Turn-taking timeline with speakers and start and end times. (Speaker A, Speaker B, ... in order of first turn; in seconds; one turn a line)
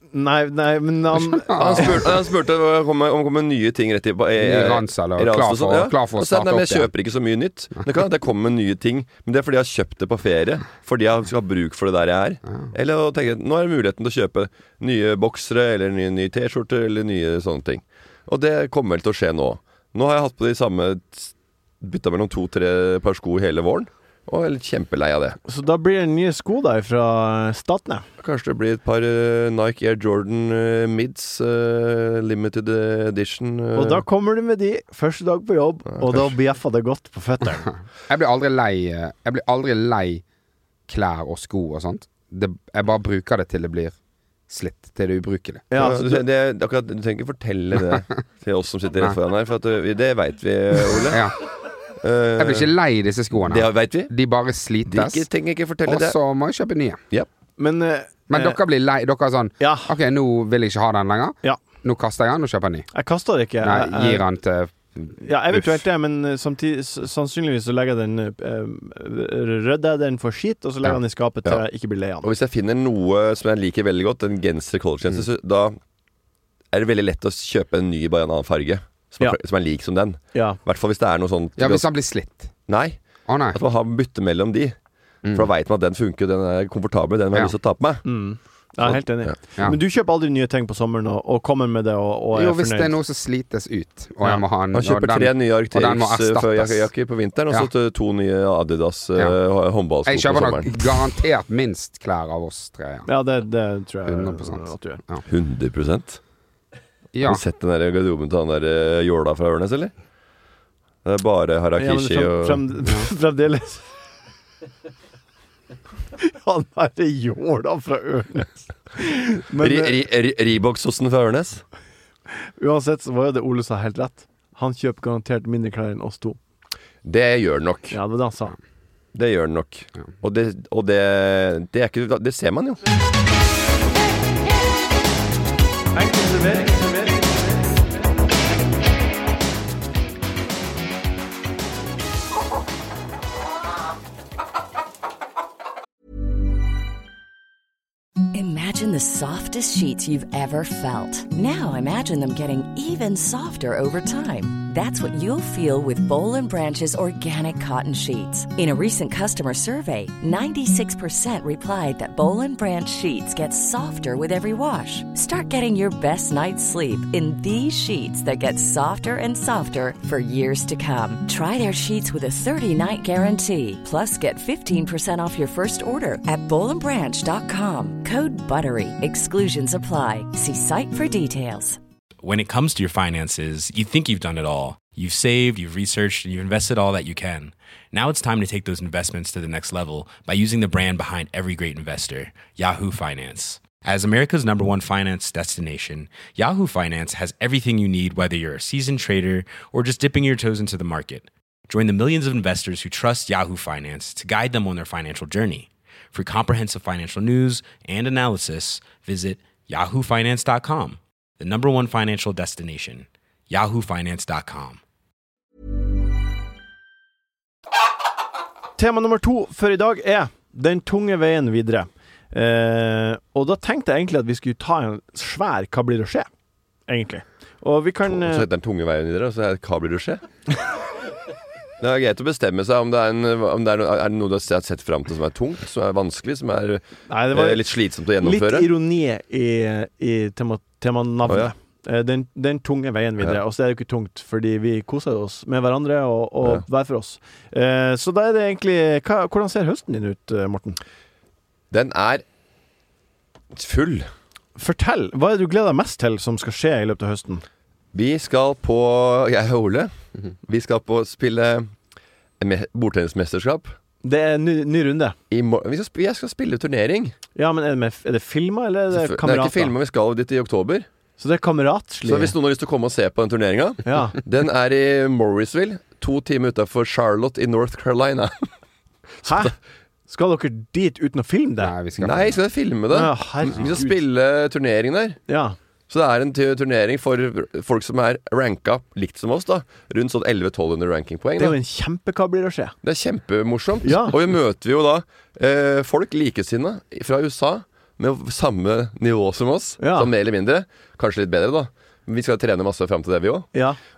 Speaker A: 0.1-2.0
Speaker B: 1.5-2.0
Speaker C: 1.6-25.4
Speaker B: 4.4-6.9
Speaker A: 25.5-28.0
Speaker C: 28.2-34.0
Speaker A: 33.7-37.7
Speaker C: 35.9-36.3
Speaker B: 38.1-40.2
Speaker B: 40.9-44.0
Speaker B: 44.5-45.7
Speaker A: 45.7-46.2
Speaker C: 45.7-51.3
Speaker B: 51.0-51.4
Speaker C: 52.0-52.7
Speaker B: 52.4-55.3
Speaker C: 53.3-54.1
Speaker C: 54.9-56.1
Speaker B: 55.9-57.0
Speaker A: 57.6-58.6
Speaker B: 58.3-62.9
Speaker A: 59.6-59.9
Speaker A: 62.9-64.2
Speaker B: 63.6-65.6
Speaker A: 65.2-72.3
Speaker C: 72.2-75.8
Speaker C: 76.7-81.9
Speaker A: 80.3-80.6
Speaker B: 81.6-82.5
Speaker C: 82.7-83.0
Speaker B: 83.3-83.6
Speaker C: 83.5-84.7
Speaker C: 85.3-88.0
Speaker A: 88.0-93.0
Speaker C: 88.8-89.3
Speaker B: 92.3-96.9
Speaker C: 94.7-100.7
Speaker B: 100.0-103.1
Speaker A: 103.0-105.0
Speaker B: 104.1-105.2
Speaker C: 105.3-106.2
Speaker B: 107.1-107.4
Speaker C: 107.2-109.9
Speaker C: 111.0-112.6
Speaker A: 111.8-113.9
Speaker A: 116.2-120.0
Speaker C: 119.6-121.6
Speaker A: 122.3-126.4
Speaker C: 127.0-128.0
Speaker A: 127.9-128.5
Speaker C: 129.1-132.8
Speaker A: 135.9-137.5
Speaker D: 148.3-181.8
Speaker E: 182.2-214.8
Speaker A: 218.8-226.3
Speaker A: 226.9-228.4
Speaker C: 228.0-230.2
Speaker C: 231.8-238.7
Speaker A: 237.1-237.6
Speaker A: 238.2-250.8
Speaker C: 241.3-241.5
Speaker C: 251.7-252.2
Speaker C: 253.5-254.1
Speaker A: 254.6-257.4
Speaker C: 257.9-259.9
Speaker C: 260.4-261.7
Speaker C: 262.4-263.7
Speaker A: 264.0-265.1
Speaker C: 265.3-267.1
Speaker A: 267.3-269.7
Speaker C: 268.9-270.9
Speaker A: 271.2-272.3
Speaker C: 272.0-278.5
Speaker A: 273.8-274.2
Speaker C: 279.2-279.5
Speaker A: 279.2-279.5
Speaker A: 280.1-281.7
Speaker B: 281.6-282.4
Speaker C: 282.0-285.2
Speaker A: 282.9-283.9
Speaker A: 285.3-285.6
Speaker C: 285.9-291.6
Speaker A: 291.4-292.8
Speaker C: 292.8-303.5
Speaker A: 293.8-294.2
Speaker A: 299.8-300.1
Speaker A: 303.5-303.8